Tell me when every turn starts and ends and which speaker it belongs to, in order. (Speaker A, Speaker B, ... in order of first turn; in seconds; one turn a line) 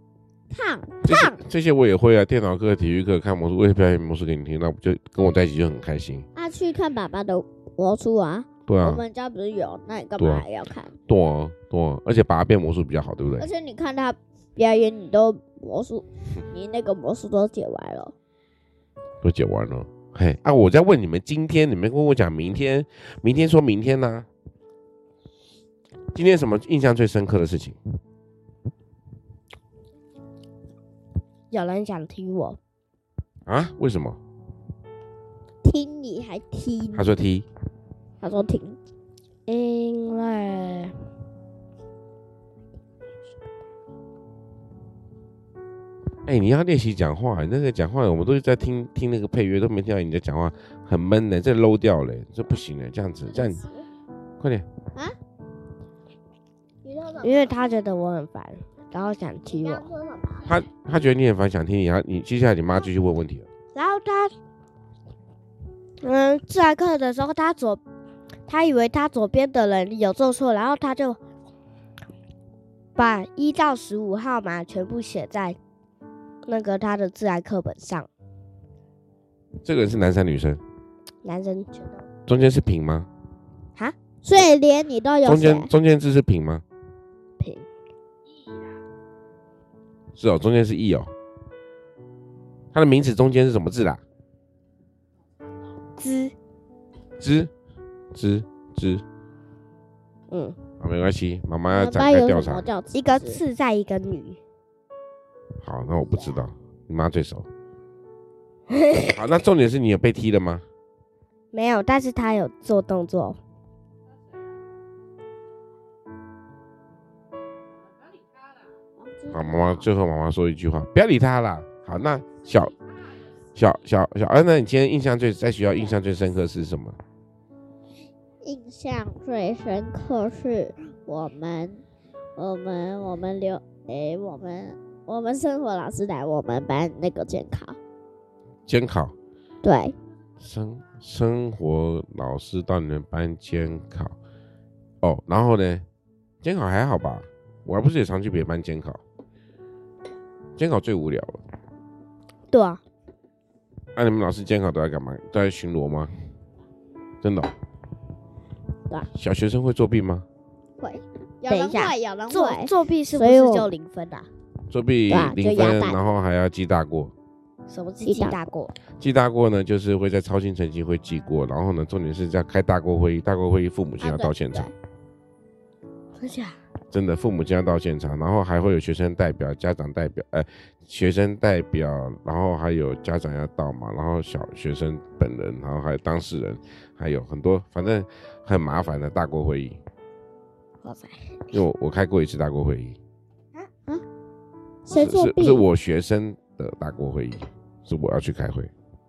Speaker A: 0.5-1.4
Speaker B: 1.0-6.3
Speaker A: 6.3-11.0
Speaker B: 8.7-9.0
Speaker B: 10.2-10.5
Speaker B: 11.1-13.5
Speaker A: 13.4-18.1
Speaker B: 19.2-24.3
Speaker B: 26.1-27.8
Speaker C: 31.5-32.6
Speaker B: 33.5-34.2
Speaker A: 35.6-37.1
Speaker B: 37.0-37.5
Speaker A: 38.2-38.8
Speaker C: 39.5-40.9
Speaker B: 46.3-53.6
Speaker A: 53.4-53.8
Speaker B: 54.4-54.7
Speaker A: 56.9-57.3
Speaker C: 57.2-59.9
Speaker A: 59.6-60.4
Speaker B: 60.5-63.5
Speaker C: 63.7-64.3
Speaker C: 66.0-67.8
Speaker C: 68.5-71.2
Speaker C: 73.0-75.6
Speaker C: 76.5-78.1
Speaker B: 79.6-80.6
Speaker C: 81.2-82.0
Speaker B: 82.3-83.1
Speaker A: 84.2-85.7
Speaker B: 85.2-86.6
Speaker C: 87.4-87.7
Speaker B: 90.2-91.1
Speaker B: 92.7-94.0
Speaker C: 96.0-96.3
Speaker B: 97.2-97.5
Speaker B: 98.1-99.0
Speaker C: 100.3-100.6
Speaker B: 100.8-102.7
Speaker A: 101.7-103.4
Speaker C: 102.9-104.4
Speaker B: 105.6-107.5
Speaker C: 108.7-109.1
Speaker B: 109.0-110.7
Speaker C: 111.5-113.4
Speaker A: 119.0-119.8
Speaker B: 119.3-122.8
Speaker B: 123.5-127.0
Speaker A: 128.4-131.8
Speaker A: 132.4-137.8
Speaker B: 138.7-139.1
Speaker A: 139.6-139.9
Speaker B: 140.4-144.1
Speaker B: 145.0-145.8
Speaker B: 146.4-149.0
Speaker B: 150.6-151.4
Speaker C: 152.5-152.8
Speaker B: 154.0-156.1
Speaker B: 157.2-157.5
Speaker B: 159.2-160.2
Speaker A: 160.8-163.7
Speaker C: 161.5-164.3
Speaker B: 164.7-167.1
Speaker A: 165.1-166.0
Speaker C: 167.7-168.7
Speaker A: 168.1-168.4
Speaker B: 169.0-174.7
Speaker A: 174.0-174.7
Speaker C: 176.2-176.6
Speaker B: 176.9-189.8
Speaker C: 190.8-191.4
Speaker B: 191.5-193.0
Speaker A: 194.9-195.7
Speaker B: 194.9-198.7